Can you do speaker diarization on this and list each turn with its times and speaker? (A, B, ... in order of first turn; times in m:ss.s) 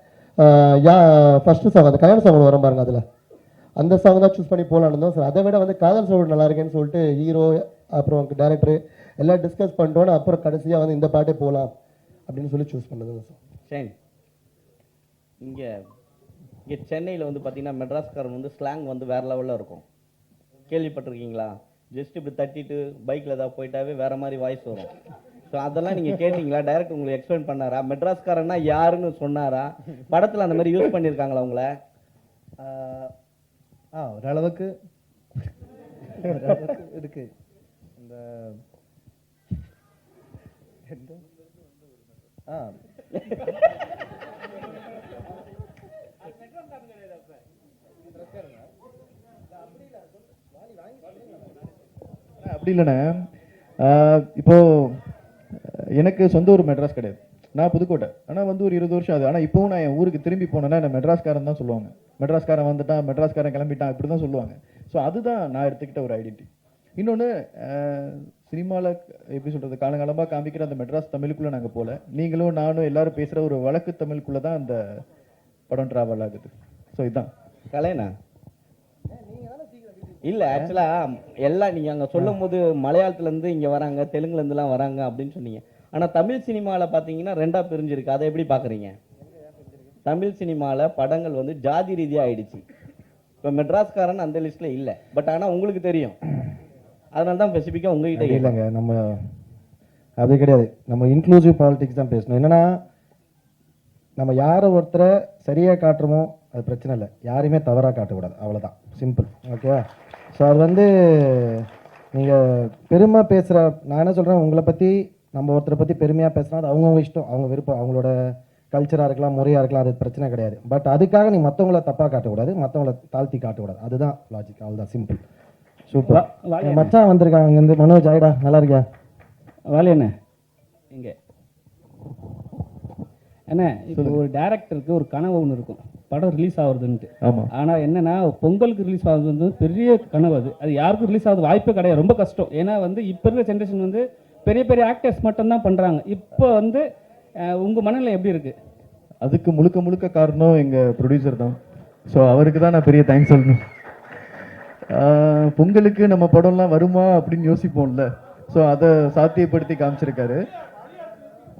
0:00.4-0:03.0 A
0:03.8-0:11.7 A
0:12.3-0:13.4 A
0:13.7-0:13.9 B
0:15.4-0:15.7 B
0:16.7-0:19.8 B
0:20.7-0:24.9 B
0:25.5-0:31.8 B
0:32.6-0:33.1 C
0:34.0-0:34.7 C
0:36.3-0:37.2 C
0:36.4-0:36.8 D
0:38.0-0:38.4 C
0:52.4-0:53.3 E
0:53.8-0:55.0 E
0:56.0-1:15.0 E
1:15.7-1:17.3 E
1:17.7-1:18.1 B
1:19.2-1:20.0 C
1:20.2-1:29.0 B
1:30.0-1:32.6 B
1:33.4-1:36.2 B
1:37.1-1:38.6 B
1:38.2-1:39.2 D
1:40.2-1:42.8 D
1:44.2-1:49.8 D
1:50.3-1:58.1 D
1:58.7-2:05.2 D
2:05.9-2:08.8 D
2:06.1-2:06.9 F
2:09.7-2:10.1 F
2:10.9-2:11.2 F
2:13.5-2:26.8 F
2:13.9-2:14.2 E
2:17.2-2:17.5 E
2:27.4-2:28.6 F
2:29.2-2:33.6 E
2:34.9-2:40.4 E